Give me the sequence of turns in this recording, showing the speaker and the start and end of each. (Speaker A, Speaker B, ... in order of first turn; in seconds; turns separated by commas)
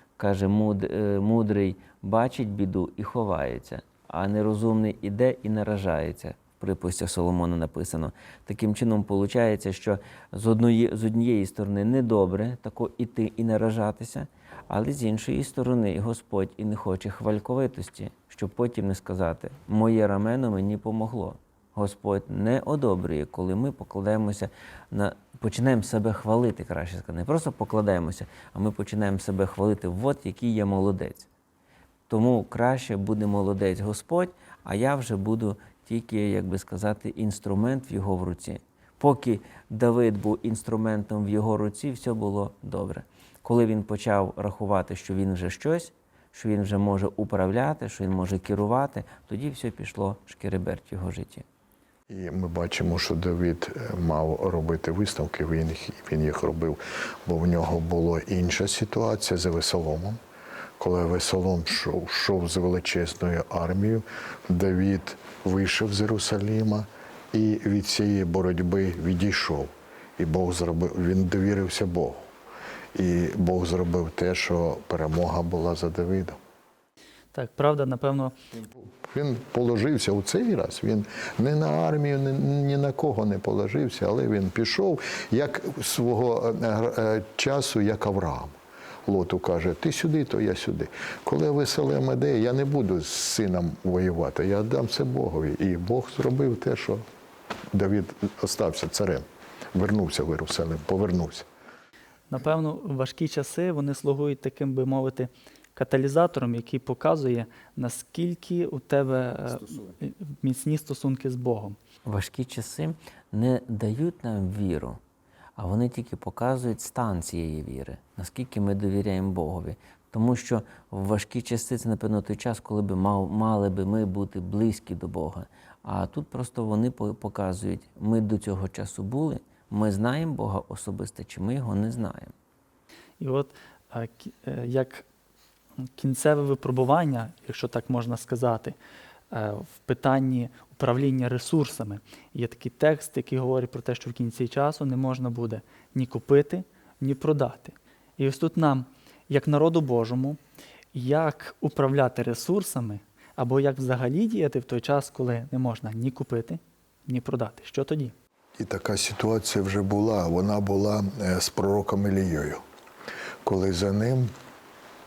Speaker A: 0.2-31.3, Speaker A: 32.1-51.5, Speaker B: 52.1-60.2, Speaker B: 60.8-72.2, Speaker B: 73.0-76.4, Speaker C: 77.3-78.3, Speaker B: 78.6-88.5, Speaker B: 89.1-97.0, Speaker B: 97.7-101.5, Speaker C: 102.3-111.8, Speaker A: 112.1-115.0, Speaker A: 115.6-132.3, Speaker C: 133.2-135.1, Speaker C: 136.0-138.8, Speaker C: 139.3-150.4, Speaker C: 150.9-158.1, Speaker B: 158.6-162.6, Speaker B: 163.4-164.3